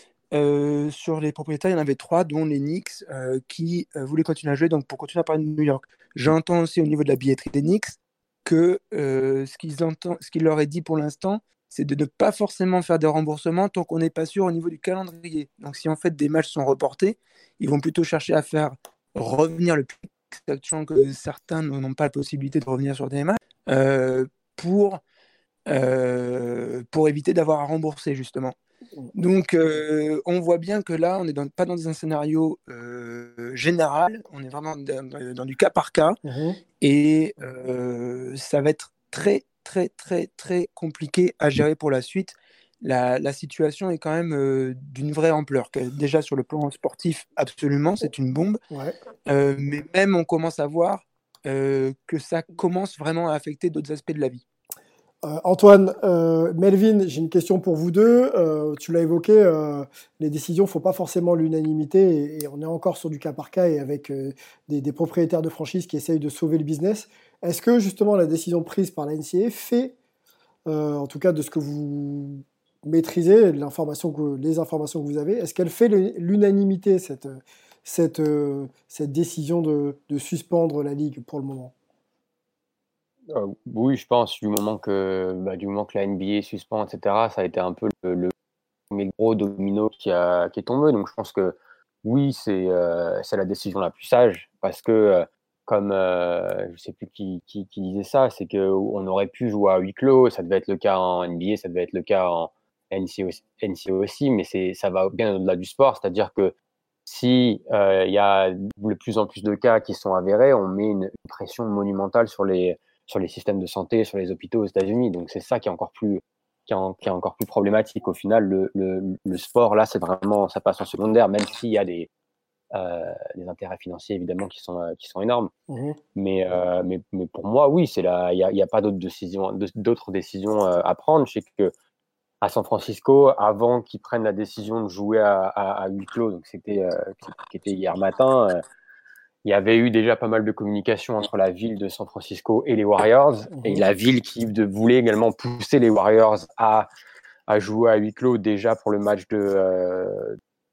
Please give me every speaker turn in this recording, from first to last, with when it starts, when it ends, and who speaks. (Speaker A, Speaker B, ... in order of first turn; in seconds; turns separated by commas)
Speaker A: 0.3-25.0, Speaker A: 25.7-28.6, Speaker A: 29.1-36.2, Speaker B: 36.2-36.6, Speaker A: 36.8-48.6, Speaker A: 49.3-54.4, Speaker B: 55.2-69.9, Speaker B: 70.7-81.7, Speaker C: 83.3-88.3, Speaker C: 88.9-106.5, Speaker C: 107.0-122.1, Speaker C: 122.7-125.5, Speaker B: 125.7-126.0, Speaker C: 126.2-131.7, Speaker C: 132.4-138.6, Speaker C: 139.4-146.9, Speaker B: 143.5-143.8, Speaker C: 147.5-150.4